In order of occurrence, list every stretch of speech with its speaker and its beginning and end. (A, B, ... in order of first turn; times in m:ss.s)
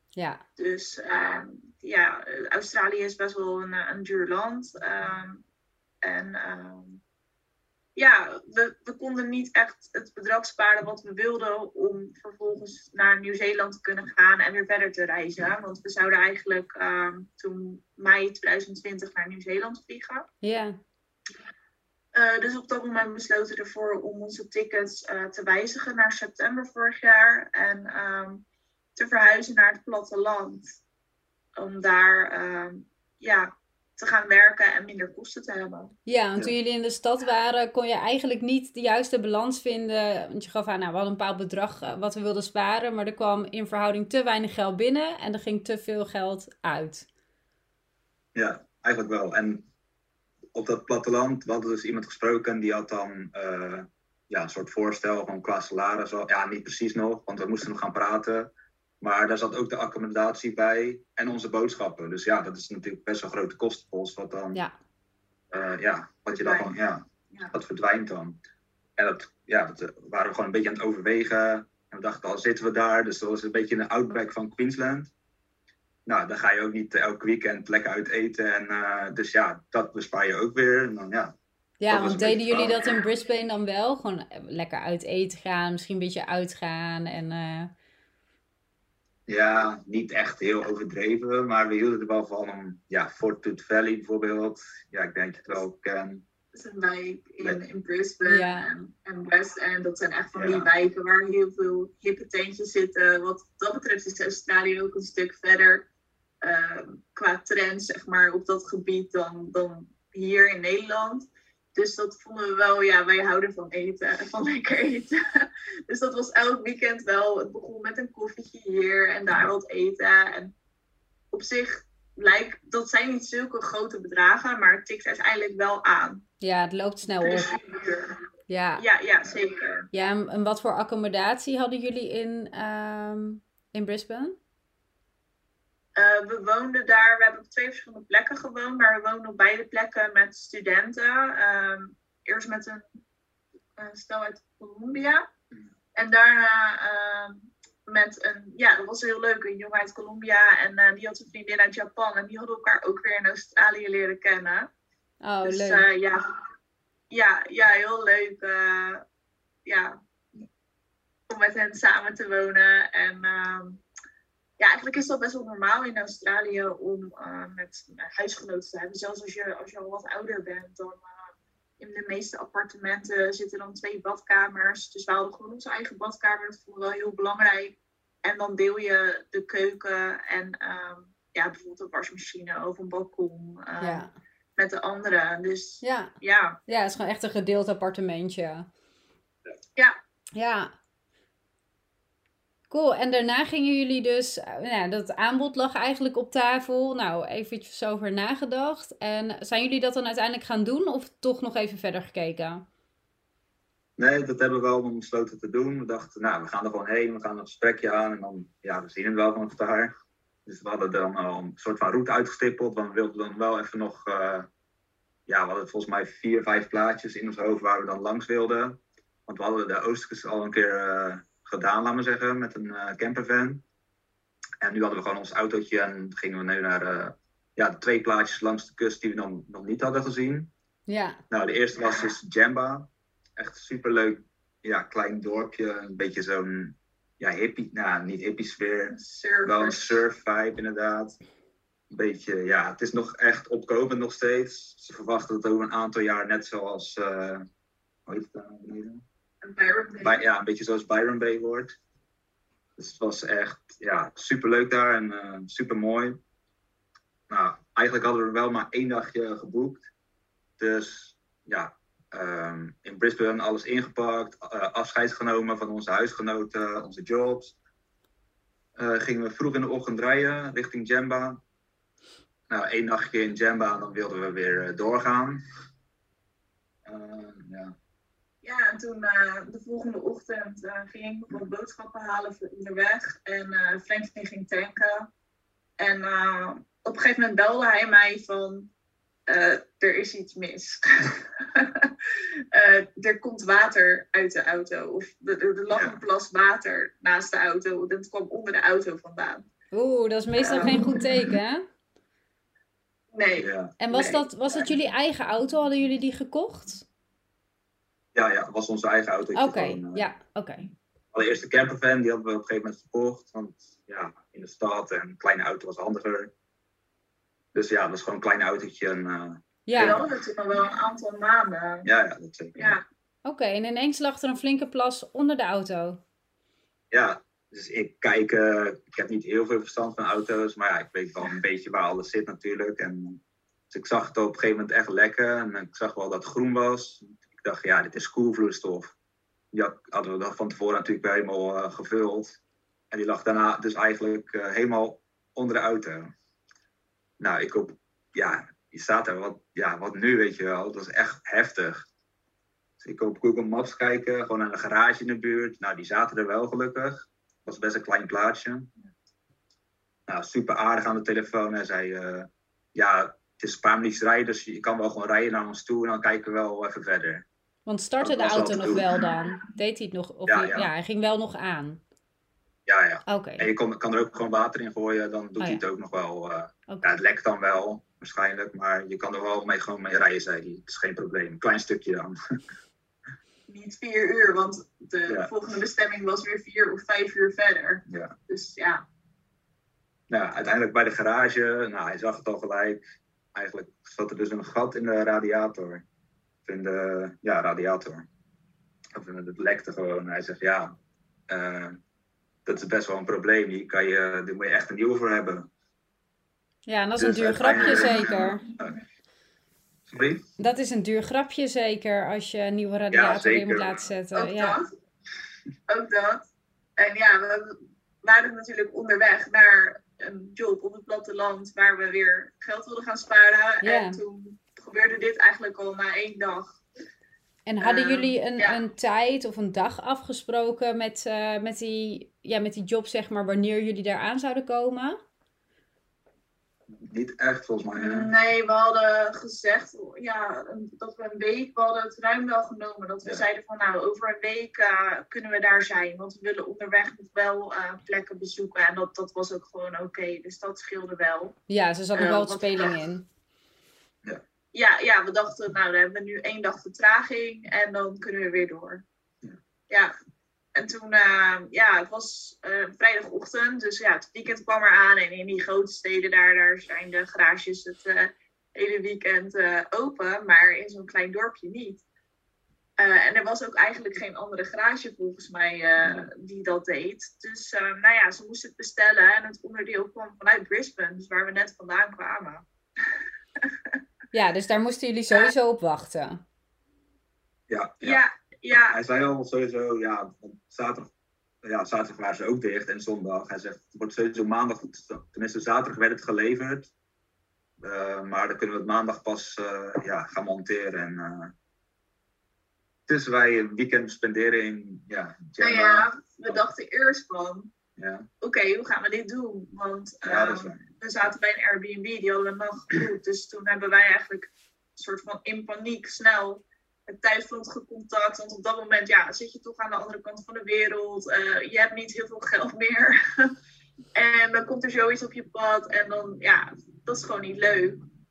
0:00.2-0:00.4 A
0:00.6-0:05.4 B
0:06.0-0:07.0 B
0:08.0-0:20.3 B
0:20.4-0:20.8 A
0:22.1-0:28.4 B
0:29.0-0:30.8 B
0:31.6-0:35.9 B
0:36.1-0:47.1 A
0:48.4-0:49.7 C
0:50.5-1:04.6 C
1:05.5-1:08.4 C
1:06.3-1:06.7 B
1:09.0-1:15.1 C
1:16.1-1:21.3 C
1:21.8-1:27.7 A
1:21.9-1:22.9 C
1:29.3-1:36.2 C
1:36.5-1:45.9 B
1:38.3-1:38.7 A
1:40.3-1:40.7 C
1:46.4-2:00.5 B
2:01.3-2:06.2 B
2:06.4-2:07.5 A
2:07.2-2:08.1 B
2:08.5-2:08.8 A
2:08.8-2:09.9 B
2:09.9-2:14.4 A
2:16.0-2:23.0 B
2:23.8-2:25.2 B
2:26.0-2:34.7 B
2:35.2-2:35.8 A
2:35.4-2:36.2 B
2:37.1-2:39.0 B
2:39.6-2:40.4 B
2:41.3-2:43.8 B
2:44.6-2:51.2 B
2:51.8-3:04.1 B
3:03.8-3:04.1 A
3:04.6-3:06.6 B
3:05.8-3:06.1 A
3:06.7-3:08.7 A
3:10.4-3:10.7 A
3:12.7-3:22.6 A
3:24.0-3:29.9 C
3:30.5-3:34.5 C
3:35.3-3:43.6 C
3:44.6-3:50.5 C
3:50.9-3:51.2 A
3:51.3-4:01.2 C
3:58.9-4:00.0 B
4:01.9-4:07.4 C
4:08.1-4:09.0 C
4:09.4-4:10.2 B
4:10.0-4:11.7 C
4:12.8-4:16.2 C
4:17.3-4:19.9 C
4:20.6-4:27.6 C
4:28.8-4:31.4 C
4:32.5-4:35.4 C
4:36.8-4:37.8 C
4:38.4-4:45.1 B
4:45.8-4:48.7 B
4:49.3-4:51.9 B
4:52.5-4:59.4 B
4:55.7-4:56.0 C
4:59.7-5:01.7 A
5:00.4-5:01.1 B
5:03.1-5:04.7 B
5:03.4-5:03.8 C
5:03.8-5:06.9 A
5:08.2-5:10.1 C
5:09.4-5:10.7 A
5:11.1-5:16.3 C
5:17.5-5:20.1 C
5:19.7-5:20.0 A
5:19.8-5:21.9 B
5:21.8-5:22.8 C
5:22.6-5:22.8 B
5:23.2-5:26.0 A
5:26.9-5:39.0 C
5:39.5-5:42.4 C
5:42.9-5:46.1 C
5:47.2-5:51.9 C
5:52.8-5:58.7 C
6:00.1-6:07.3 C
6:07.7-6:11.8 A
6:08.0-6:09.0 C
6:10.3-6:10.7 C
6:12.7-6:22.2 C
6:13.1-6:13.5 A
6:23.5-6:28.8 B
6:27.9-6:28.2 C
6:30.1-6:32.8 C
6:33.4-6:35.8 C
6:36.4-6:38.1 C
6:38.9-6:40.8 C
6:41.3-6:41.8 C
6:42.5-6:45.5 C
6:46.7-6:48.4 A
6:47.0-6:48.8 C
6:49.9-6:50.3 C
6:50.4-6:54.6 A
6:52.9-6:53.8 C
6:54.1-6:54.7 B
6:55.7-6:56.2 B
6:56.8-7:06.6 B
7:03.6-7:04.0 A
7:07.5-7:15.0 A
7:07.6-7:08.6 B
7:16.7-7:18.1 C
7:17.8-7:31.4 B
7:31.5-7:33.1 A
7:32.0-7:32.7 B
7:34.5-7:38.8 B
7:40.6-7:51.8 B
7:52.8-8:02.4 B
7:55.8-7:56.1 C
8:03.4-8:03.8 B
8:04.1-8:06.2 A
8:07.5-8:10.9 C
8:07.8-8:08.8 B
8:11.4-8:16.7 C
8:17.6-8:21.3 C
8:22.9-8:26.4 C
8:25.4-8:27.5 B
8:27.8-8:28.1 C
8:28.2-8:43.3 B
8:30.0-8:30.6 C
8:44.0-8:47.8 B